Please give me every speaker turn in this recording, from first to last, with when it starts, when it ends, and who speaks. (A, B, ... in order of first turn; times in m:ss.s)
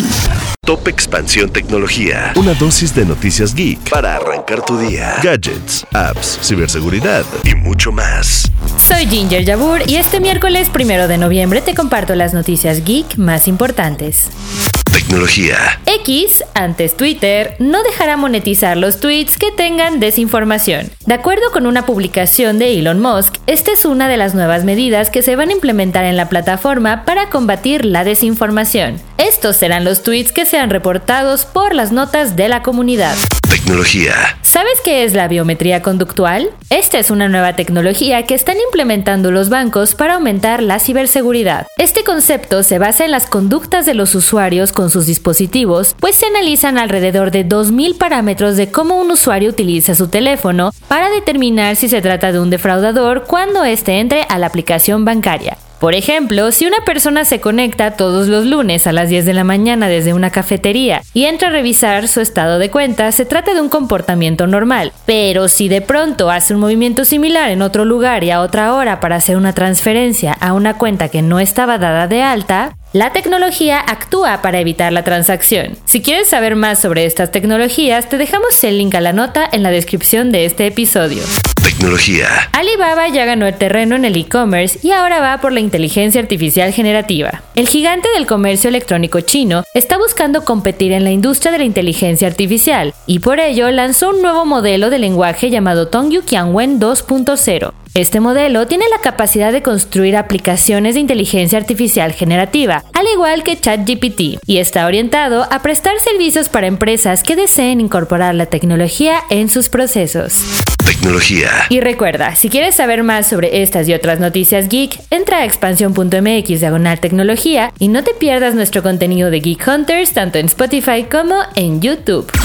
0:00.6-0:08.5 A
0:08.8-0:14.3 B
0:14.9-0:15.8 A
0:15.8-0:33.2 B
0:33.5-0:34.3 A
0:34.4-1:21.3 B
1:21.6-1:22.4 A
1:22.5-1:50.4 B
1:50.8-1:51.5 A
1:51.7-2:02.3 B